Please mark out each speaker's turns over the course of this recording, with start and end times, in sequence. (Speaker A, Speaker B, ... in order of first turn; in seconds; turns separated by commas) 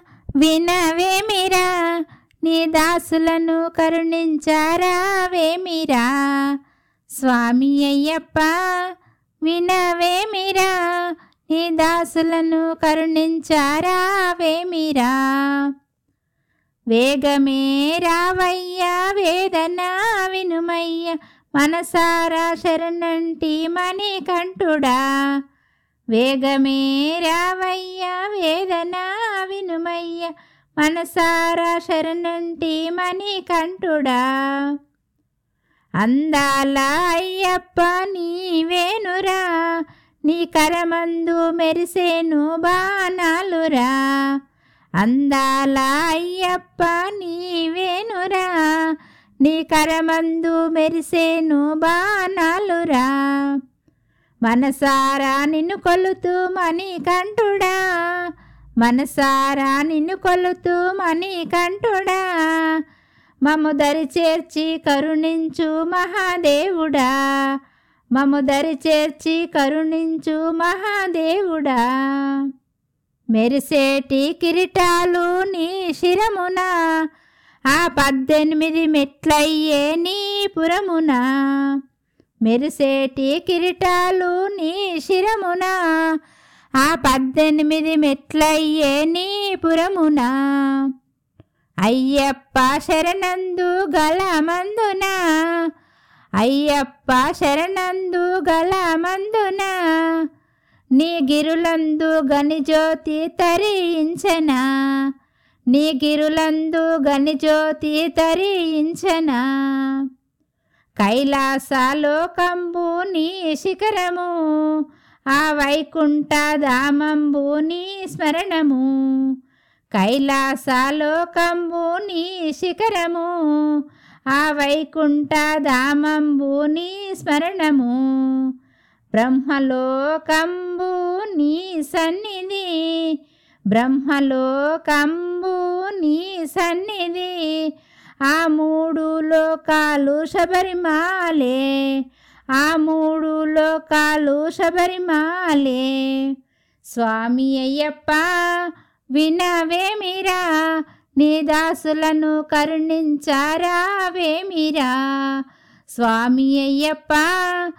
Speaker A: 0.4-1.7, Speaker A: 2.4-6.5, Speaker A: 7.2-8.5, Speaker A: 9.4-10.8, Speaker A: 11.5-15.7, Speaker A: 16.9-25.0, Speaker A: 26.1-34.7, Speaker A: 36.0-39.4, Speaker A: 40.3-44.3, Speaker A: 45.0-48.7, Speaker A: 49.4-53.6, Speaker A: 54.5-57.8, Speaker A: 58.8-62.7, Speaker A: 63.5-67.1, Speaker A: 68.2-72.5, Speaker A: 73.3-76.7, Speaker A: 77.7-81.8, Speaker A: 82.5-85.8, Speaker A: 86.8-90.9, Speaker A: 91.8-95.2, Speaker A: 96.4-99.7, Speaker A: 101.0-104.6, Speaker A: 105.7-110.0, Speaker A: 111.0-114.3, Speaker A: 115.3-118.9, Speaker A: 119.9-123.7, Speaker A: 124.3-128.4, Speaker A: 129.1-133.1, Speaker A: 133.7-137.6, Speaker A: 138.3-141.7, Speaker A: 142.6-146.3, Speaker A: 146.9-148.4, Speaker A: 149.1-150.4, Speaker A: 151.2-155.4, Speaker A: 155.9-157.4